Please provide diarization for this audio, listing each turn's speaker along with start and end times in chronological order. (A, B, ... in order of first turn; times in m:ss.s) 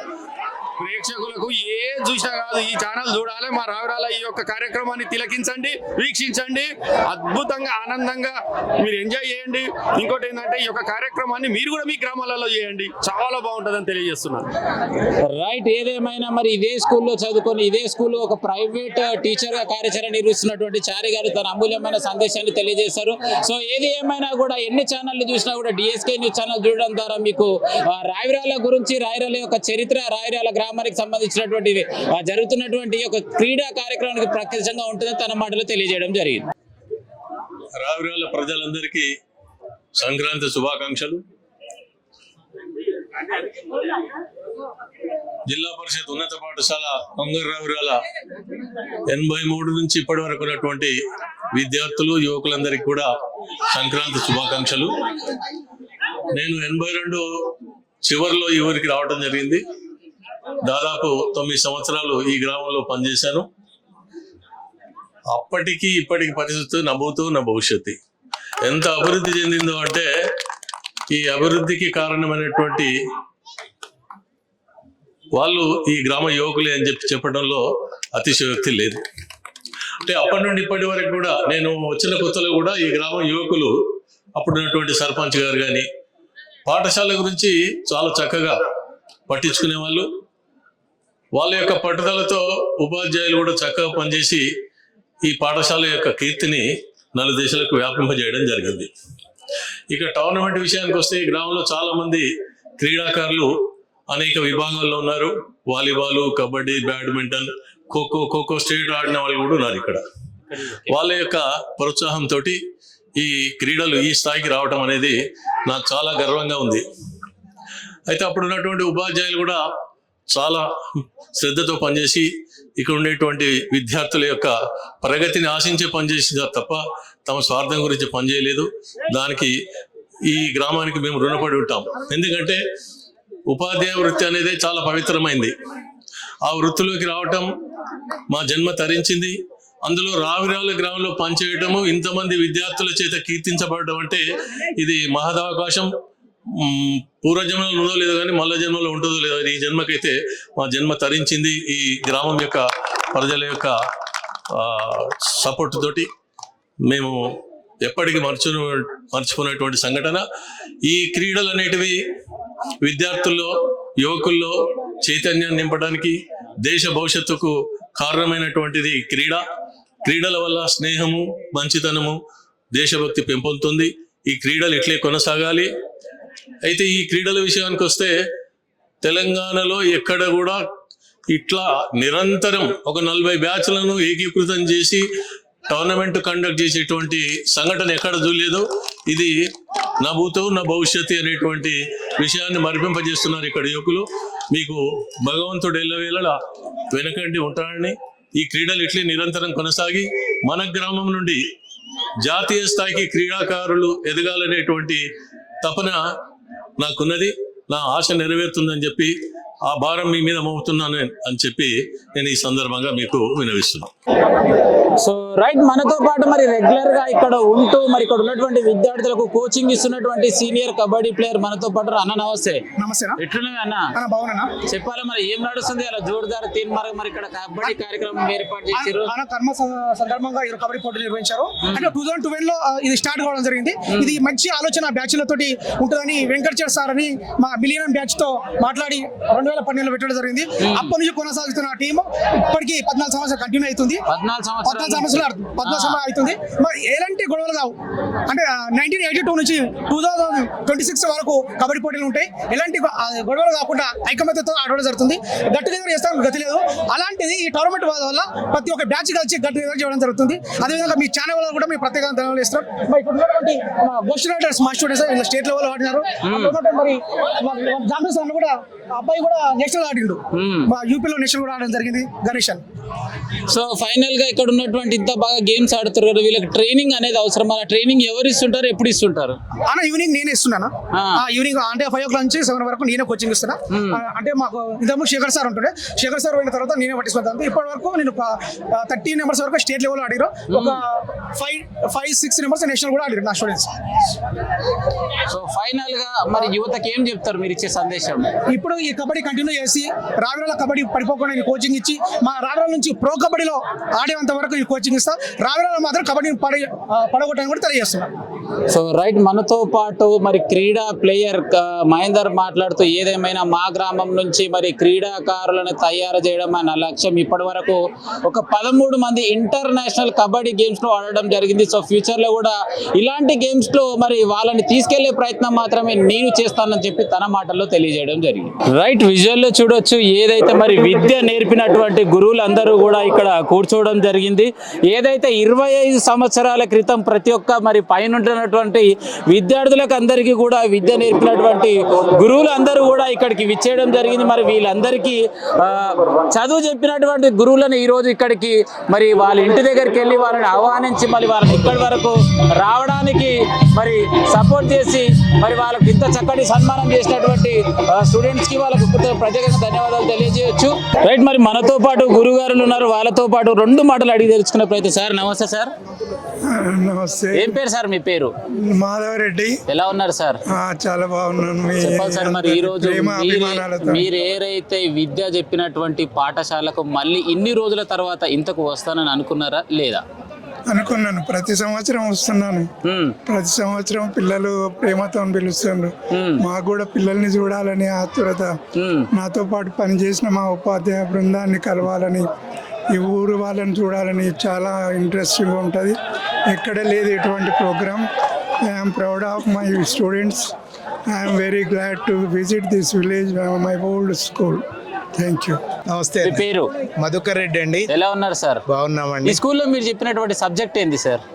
0:00.8-0:14.5 A
0:15.2-0:36.5 B
0:37.8-0:39.1 C
0:40.0-0:41.2 C
0:45.5-0:48.0 C
0:49.1-0:51.0 C
0:51.5-0:53.1 C
0:53.7-0:54.9 C
0:56.3-0:57.2 C
0:58.0-0:59.6 C
1:00.6-1:03.5 C
1:05.3-1:08.0 C
1:08.6-1:10.1 C
1:11.1-1:12.9 C
1:15.4-1:17.6 C
1:18.2-1:19.0 C
1:20.0-1:23.7 C
1:24.4-1:25.9 C
1:26.7-1:28.6 C
1:29.3-1:30.1 C
1:31.4-1:34.4 C
1:35.2-1:38.9 C
1:39.9-1:42.3 C
1:42.8-1:43.5 C
1:44.1-1:50.0 C
1:50.9-1:52.6 C
1:53.2-1:55.2 C
1:55.7-1:56.8 C
1:58.1-1:59.6 C
2:00.3-2:02.3 C
2:02.8-2:09.6 C
2:10.3-2:12.6 C
2:13.5-2:15.5 C
2:16.4-2:17.5 C
2:18.3-2:19.3 C
2:19.8-2:24.2 C
2:24.8-2:25.9 C
2:26.5-2:33.8 C
2:34.5-2:36.1 C
2:36.9-2:37.2 C
2:37.8-2:40.2 C
2:40.9-2:42.0 C
2:42.8-2:43.5 C
2:44.0-2:49.4 C
2:50.0-2:52.2 C
2:52.7-2:55.7 C
2:56.6-2:58.1 C
2:59.0-3:00.6 C
3:01.3-3:05.0 C
3:05.7-3:09.4 C
3:10.0-3:16.4 C
3:16.9-3:21.4 C
3:22.2-3:25.0 C
3:25.6-3:26.0 C
3:26.8-3:33.9 C
3:35.0-3:42.6 B
3:42.8-3:43.2 D
3:43.2-3:43.9 B
3:44.0-3:44.5 D
3:44.7-3:49.1 B
3:48.8-4:04.0 D
3:51.6-3:51.9 B
3:53.9-3:54.2 B
4:00.6-4:00.9 B
4:04.1-4:06.0 B
4:04.7-4:07.7 D
4:08.3-4:32.6 D
4:26.2-4:26.6 B
4:30.3-4:30.7 B
4:33.5-4:39.4 B
4:39.7-4:53.7 D
4:40.9-4:41.2 B
4:43.7-4:44.0 B
4:50.5-4:50.8 B
4:55.3-4:58.3 B
4:58.5-5:08.1 D
5:08.7-6:05.7 B
6:06.4-6:07.6 E
6:07.3-6:08.3 B
6:08.6-6:09.6 E
6:09.7-6:10.4 B
6:10.5-6:14.1 E
6:11.8-6:20.0 B
6:20.7-6:22.7 E
6:22.8-6:23.2 B
6:23.3-6:28.6 E
6:26.1-6:26.4 B
6:28.8-6:29.1 B
6:29.1-6:32.3 E
6:32.9-6:36.0 E
6:36.5-6:38.0 E
6:38.6-6:40.5 E
6:41.1-6:44.6 E
6:45.2-6:45.6 E
6:45.9-6:46.4 F
6:46.2-6:46.7 B
6:47.0-6:47.9 F
6:47.9-6:48.6 B
6:48.7-6:49.4 F
6:49.3-6:51.2 B